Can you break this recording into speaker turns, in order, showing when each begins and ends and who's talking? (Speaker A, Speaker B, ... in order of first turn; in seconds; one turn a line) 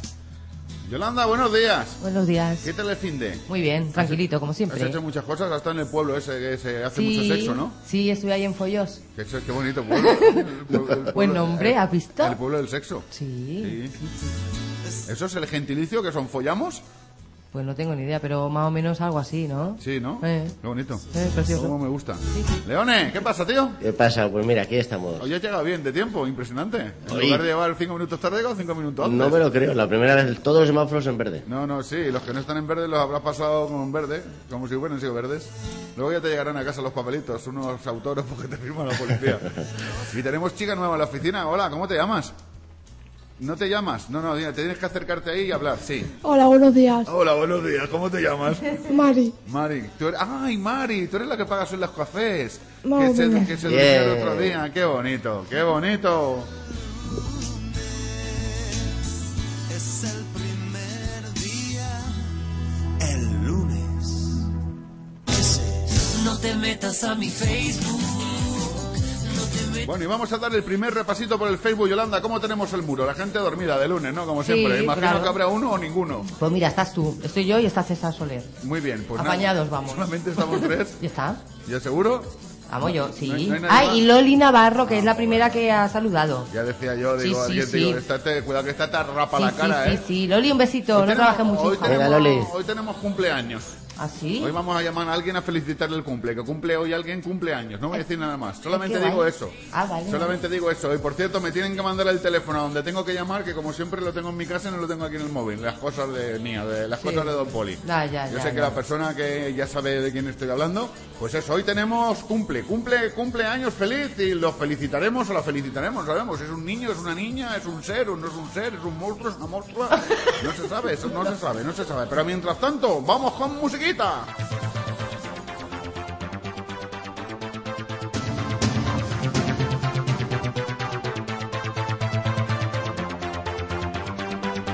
Speaker A: 0.8-2.0
Speaker B: 2.0-2.7
Speaker A: 2.6-7.8
Speaker B: 3.5-5.0
Speaker B: 7.0-9.0
Speaker A: 9.2-13.1
Speaker B: 9.9-10.4
Speaker B: 11.2-12.4
Speaker B: 13.1-14.1
Speaker A: 13.6-13.9
Speaker A: 15.1-16.8
Speaker B: 17.5-20.6
Speaker A: 19.8-23.8
Speaker B: 21.1-21.8
Speaker C: 23.8-25.3
Speaker A: 25.2-29.4
Speaker C: 27.1-27.4
Speaker C: 29.0-31.4
Speaker A: 31.5-39.5
Speaker A: 40.1-42.4
Speaker A: 43.4-46.1
Speaker D: 46.2-47.1
Speaker A: 47.1-48.8
Speaker D: 48.9-49.3
Speaker A: 49.5-56.5
Speaker D: 52.8-53.7
Speaker C: 53.7-54.6
Speaker E: 59.8-61.7
Speaker E: 63.1-63.7
Speaker F: 66.2-68.3
Speaker A: 69.8-76.3
Speaker B: 74.4-75.4
Speaker B: 76.3-78.5
Speaker A: 78.6-81.0
Speaker B: 79.2-81.4
Speaker A: 81.6-84.1
Speaker B: 82.7-86.5
Speaker A: 84.8-85.6
Speaker A: 86.5-90.0
Speaker B: 87.2-88.0
Speaker B: 89.4-92.5
Speaker A: 90.9-93.8
Speaker C: 91.9-92.5
Speaker B: 94.0-94.5
Speaker A: 94.4-124.3
Speaker B: 98.7-100.4
Speaker B: 107.0-108.8